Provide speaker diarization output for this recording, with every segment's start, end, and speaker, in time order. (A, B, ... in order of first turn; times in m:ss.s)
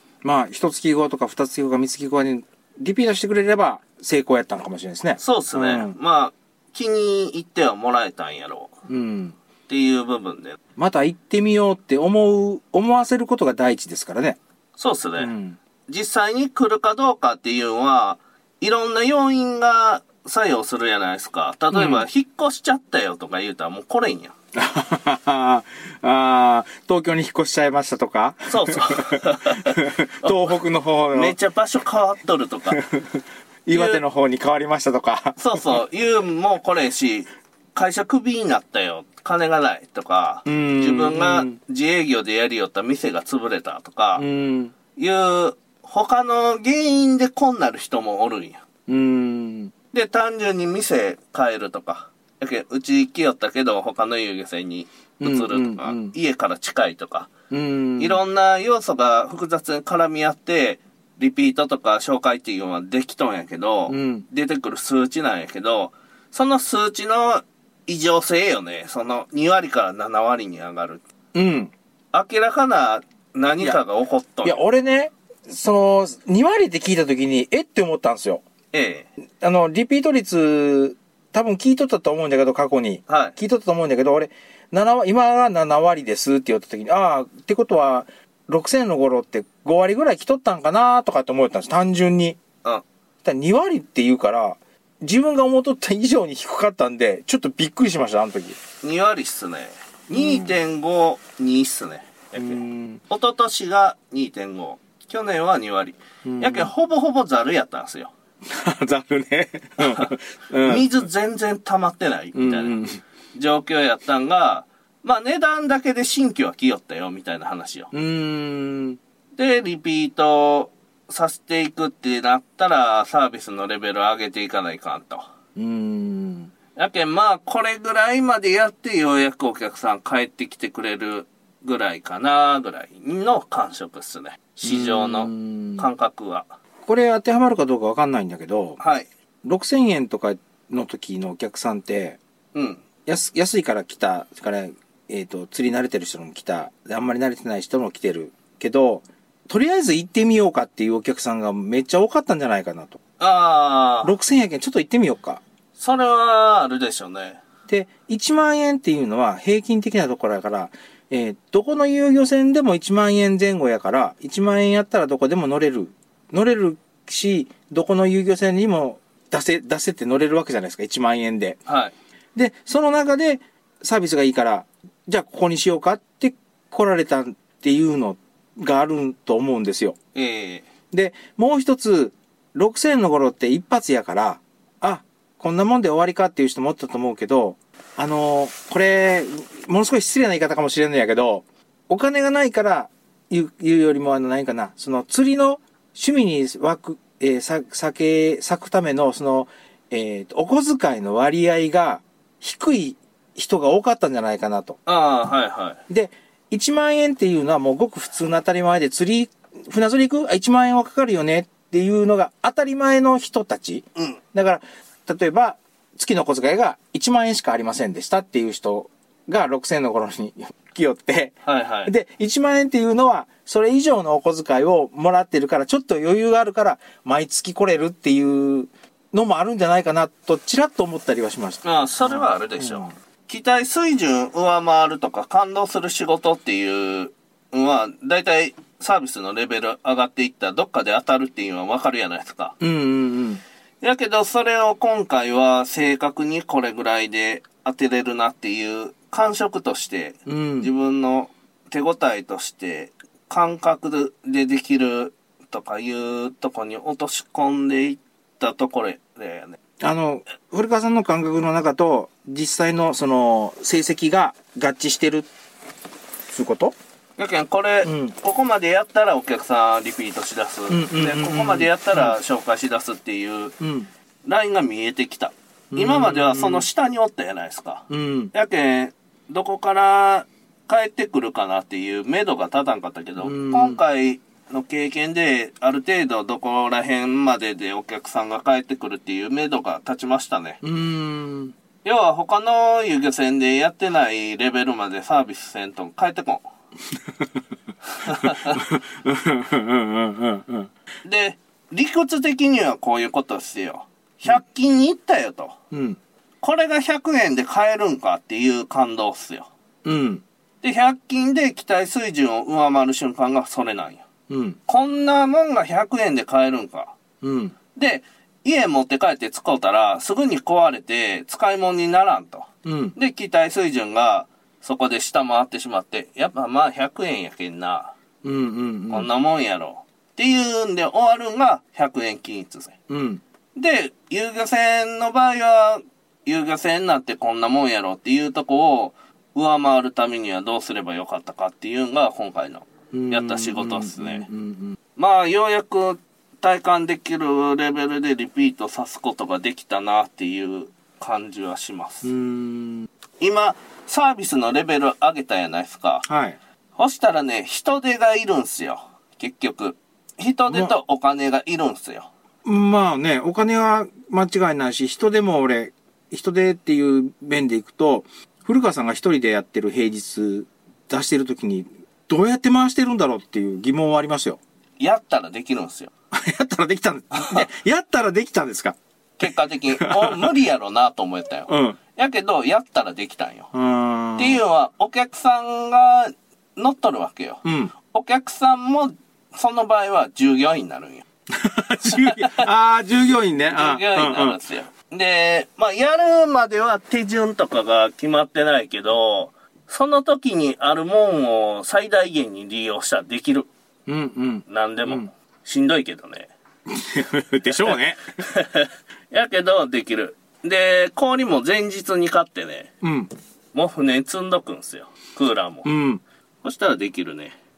0:00.2-0:05.9 A
0:05.2-0:08.7 B
0:08.9-0:09.4 A
0:09.7-0:10.6 B
0:10.8-0:14.4 A
0:14.8-0:15.3 B
0:15.2-0:15.6 A
0:15.9-0:24.4 B
0:21.7-0:22.1 A
0:24.6-0:31.4 A
0:28.5-0:30.4 B
0:31.1-0:32.8 B
0:32.7-0:35.6 A
0:33.7-0:34.0 B
0:35.4-0:44.2 B
0:40.5-0:41.6 A
0:44.2-0:44.7 A
0:45.0-0:48.6 B
0:48.9-0:49.7 A
0:49.9-0:57.3 B
0:55.2-0:56.1 A
0:57.5-0:58.2 A
0:58.0-1:11.0 B
1:03.9-1:04.2 A
1:11.3-1:11.7 A
1:12.1-1:14.6 B
1:14.4-1:18.4 A
1:18.7-1:19.1 B
1:19.4-1:32.4 A
1:23.1-1:23.4 B
1:33.2-1:38.6 A
1:38.8-1:48.1 B
1:40.1-1:40.5 A
1:42.4-1:43.0 A
1:46.2-1:46.7 A
1:48.5-1:50.9 A
1:49.8-1:52.8 B
1:52.3-1:53.0 A
1:53.3-1:57.9 B
1:57.9-1:59.0 A
1:59.4-2:05.3 B
2:05.6-2:06.5 A
2:06.8-2:16.5 B
2:14.6-2:15.9 A
2:16.8-2:18.8 A
2:18.8-2:19.1 B
2:19.4-2:22.2 A
2:22.5-2:22.8 B
2:23.1-2:33.0 A
2:33.2-2:34.1 B
2:34.0-2:35.4 A
2:35.8-2:37.4 B
2:37.7-2:51.6 A
2:51.7-2:51.9 B
2:52.4-3:00.0 A
3:00.1-3:00.7 B
3:00.9-3:24.8 A
3:24.9-3:25.8 B
3:25.9-3:41.4 A
3:41.4-3:41.9 B
3:41.9-3:52.9 A
3:51.6-4:02.6 B
4:02.6-4:03.4 A
4:03.8-4:19.6 B
4:10.3-4:10.7 A
4:19.8-4:25.3 A
4:26.3-4:26.8 A
4:27.2-4:33.6 B
4:27.8-4:28.1 A
4:30.7-4:32.2 A
4:33.6-4:33.9 A
4:34.2-4:50.6 B
4:35.7-4:36.7 A
4:37.9-4:38.3 A
4:43.2-4:43.8 A
4:50.6-4:51.5 A
4:51.8-4:56.4 B
4:58.0-4:58.6 B
4:58.0-5:00.7 A
5:01.0-5:05.6 B
5:05.7-5:06.0 A
5:06.4-5:09.5 B
5:09.8-5:10.2 A
5:10.6-5:14.0 B
5:14.3-5:14.6 A
5:14.7-5:17.0 B
5:17.2-5:17.6 A
5:17.8-5:27.9 B
5:22.6-5:23.0 A
5:28.2-5:29.1 A
5:28.9-5:32.8 B
5:32.9-5:33.2 A
5:33.6-5:44.3 B
5:42.9-5:44.8 A
5:45.0-5:52.1 B
5:52.0-5:52.9 A
5:53.2-5:56.0 B
5:56.0-5:56.4 A
5:56.8-6:02.1 B
6:02.4-6:14.4 A
6:14.8-6:15.9 B
6:16.1-6:18.8 A
6:17.1-6:17.4 B
6:19.2-6:23.5 B
6:19.8-6:20.3 A
6:21.5-6:21.8 A
6:23.5-6:24.4 A
6:24.2-6:31.0 B
6:27.4-6:27.7 A
6:31.3-6:34.4 A
6:31.9-6:32.4 B
6:33.5-6:43.5 B
6:43.9-6:45.1 A
6:44.5-6:46.3 B
6:46.7-6:48.0 A
6:47.4-6:52.7 B
6:52.8-6:53.1 A
6:53.5-6:55.7 B
6:55.6-6:56.0 A
6:56.4-6:57.4 B